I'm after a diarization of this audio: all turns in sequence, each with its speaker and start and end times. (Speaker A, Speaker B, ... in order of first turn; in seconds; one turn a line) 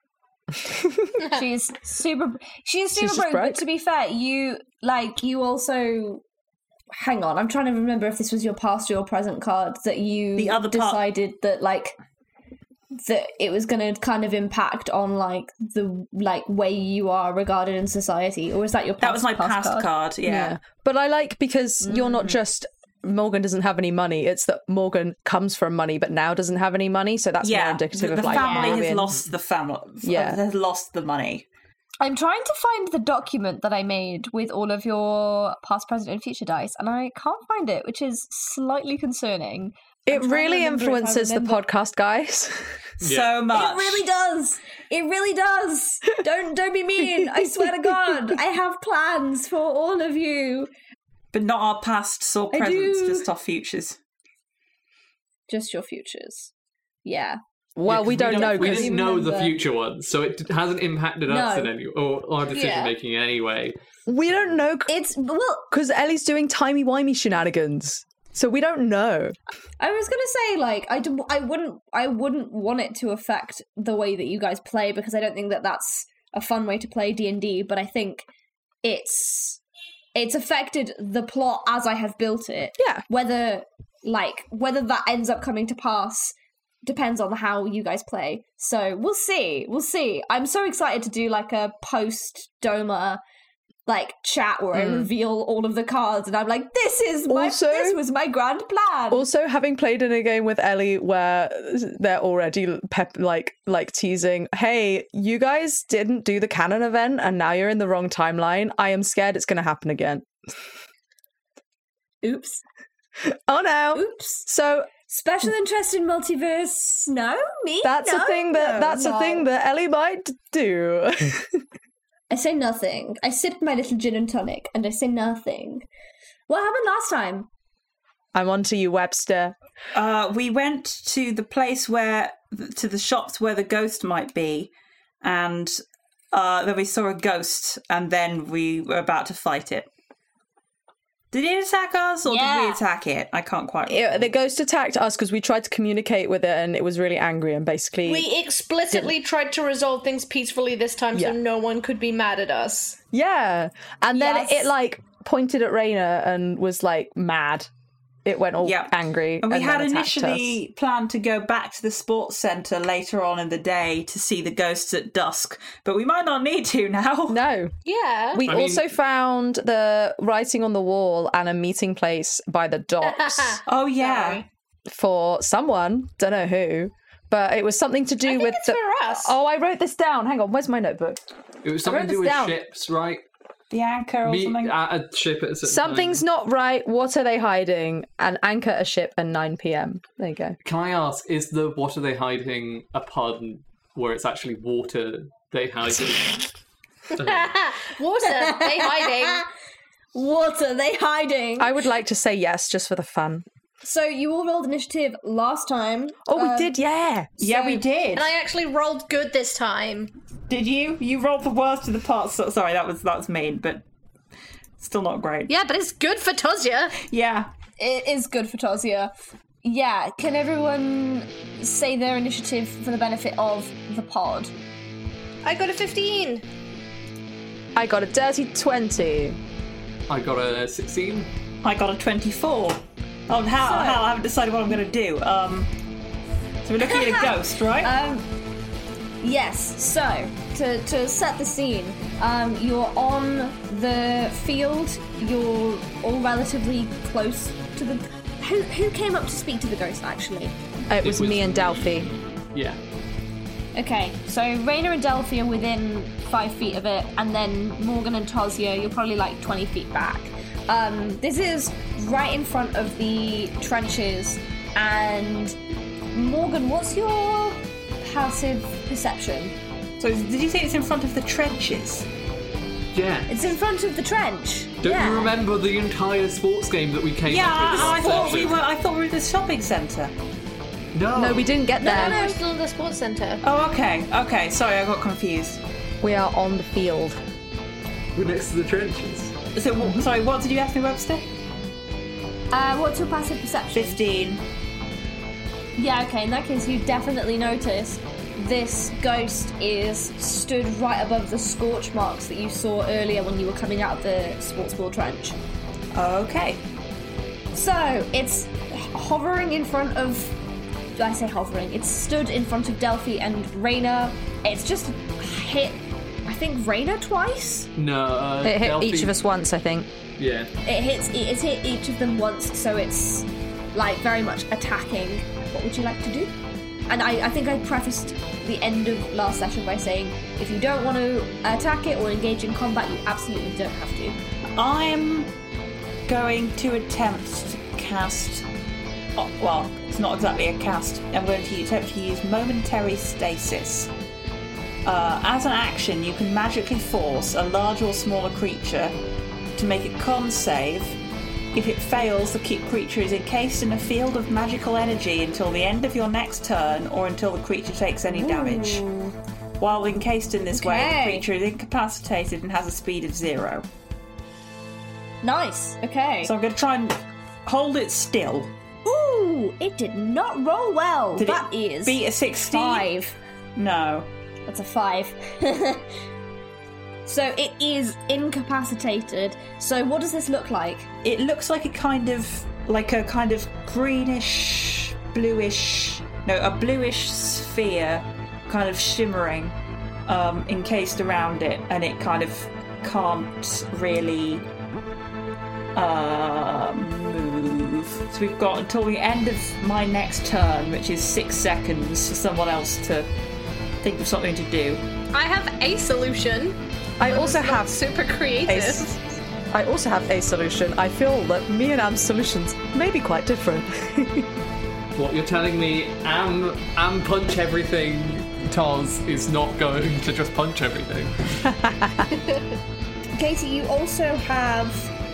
Speaker A: 1.2-6.2
Speaker B: 2.9-3.6
Speaker A: 6.9-11.9
Speaker C: 10.4-11.0
Speaker A: 13.0-19.9
Speaker C: 19.0-20.6
Speaker B: 20.2-29.1
Speaker A: 21.8-22.3
Speaker C: 27.4-31.5
Speaker A: 28.3-28.8
Speaker B: 30.0-30.4
Speaker A: 32.0-41.6
Speaker B: 40.1-42.8
Speaker C: 43.0-44.1
Speaker D: 43.0-43.3
Speaker A: 43.5-50.7
Speaker C: 51.3-54.0
Speaker A: 52.5-53.2
Speaker A: 55.5-56.5
Speaker A: 57.0-57.4
Speaker B: 57.8-58.9
Speaker D: 57.9-63.8
Speaker A: 58.3-59.6
Speaker A: 61.3-61.7
Speaker E: 62.5-62.9
Speaker B: 64.1-64.9
Speaker A: 64.9-65.7
Speaker B: 65.7-69.4
Speaker A: 69.8-78.3
Speaker A: 78.8-79.6
Speaker A: 80.2-93.2
Speaker B: 82.8-83.0
Speaker A: 93.9-99.2
Speaker B: 94.7-95.1
Speaker B: 97.3-98.0
Speaker B: 99.1-110.3
Speaker A: 112.2-112.6
Speaker B: 113.2-114.9
Speaker A: 113.9-114.5
Speaker A: 115.1-119.5
Speaker B: 117.8-121.6
Speaker A: 122.3-125.9
Speaker A: 126.5-127.5
Speaker B: 128.3-129.6
Speaker C: 129.9-135.8
Speaker C: 136.3-139.9
Speaker C: 141.3-144.3
Speaker A: 142.3-142.8
Speaker B: 143.9-148.3
Speaker E: 148.1-153.0
Speaker B: 153.1-157.7
Speaker A: 154.2-154.7
Speaker B: 158.2-160.6
Speaker C: 158.6-167.4
Speaker B: 167.3-167.7
Speaker E: 167.9-168.4
Speaker B: 168.3-173.6
Speaker D: 168.4-168.8
Speaker E: 173.1-174.4
Speaker C: 173.7-174.4
Speaker B: 174.9-181.2
Speaker E: 178.2-179.3
Speaker D: 181.6-183.2
Speaker B: 181.8-182.6
Speaker C: 183.7-184.8
Speaker D: 184.2-186.2
Speaker B: 185.6-190.6
Speaker D: 190.6-196.5
Speaker D: 197.2-197.5
Speaker E: 197.2-199.5
Speaker A: 198.2-199.4
Speaker A: 200.2-201.7
Speaker B: 201.6-203.4
Speaker A: 203.8-206.7
Speaker B: 206.3-207.4
Speaker C: 207.4-208.3
Speaker E: 208.1-210.1
Speaker C: 210.5-213.8
Speaker C: 214.8-215.5
Speaker E: 215.5-217.0
Speaker C: 217.0-217.5
Speaker A: 217.8-219.1
Speaker A: 219.6-224.5
Speaker E: 225.4-226.4
Speaker B: 227.8-229.4
Speaker D: 230.1-231.3
Speaker C: 231.6-235.7
Speaker A: 233.6-234.0
Speaker C: 236.7-237.9
Speaker A: 236.8-238.2
Speaker A: 239.2-250.6
Speaker B: 250.9-252.1
Speaker D: 251.0-252.8
Speaker A: 253.8-265.6
Speaker A: 266.1-269.6
Speaker C: 270.0-272.1
Speaker D: 272.9-273.5
Speaker A: 273.3-275.3
Speaker D: 274.8-278.6
Speaker C: 277.2-280.1
Speaker D: 280.9-281.6
Speaker B: 281.1-282.2
Speaker E: 281.8-283.4
Speaker A: 281.9-282.4
Speaker C: 283.4-285.6
Speaker B: 286.0-287.2
Speaker D: 288.1-289.3
Speaker C: 289.6-291.3
Speaker A: 292.5-294.0
Speaker C: 293.7-294.4
Speaker A: 295.8-305.4
Speaker C: 305.9-306.6
Speaker A: 307.5-310.4
Speaker A: 311.0-317.7
Speaker D: 317.8-319.1
Speaker B: 318.4-319.9
Speaker D: 320.2-320.5
Speaker A: 320.6-326.3
Speaker A: 326.9-334.2
Speaker C: 334.6-335.3
Speaker C: 336.1-338.5
Speaker C: 339.2-343.9
Speaker C: 344.9-349.0
Speaker C: 349.6-351.0
Speaker C: 351.5-358.8
Speaker A: 358.1-359.1
Speaker C: 359.6-363.7
Speaker A: 360.5-361.2
Speaker A: 365.2-366.3
Speaker C: 366.2-368.5
Speaker A: 368.9-373.2
Speaker C: 371.2-372.9
Speaker C: 373.6-374.1
Speaker A: 374.5-375.9
Speaker A: 377.1-380.9
Speaker C: 381.0-389.6
Speaker C: 390.1-394.5
Speaker C: 395.8-403.1
Speaker C: 403.8-404.8
Speaker E: 405.1-408.9
Speaker B: 407.0-407.8
Speaker B: 408.5-408.9
Speaker B: 409.5-414.3
Speaker D: 414.9-421.1
Speaker B: 421.4-422.1
Speaker A: 423.1-424.9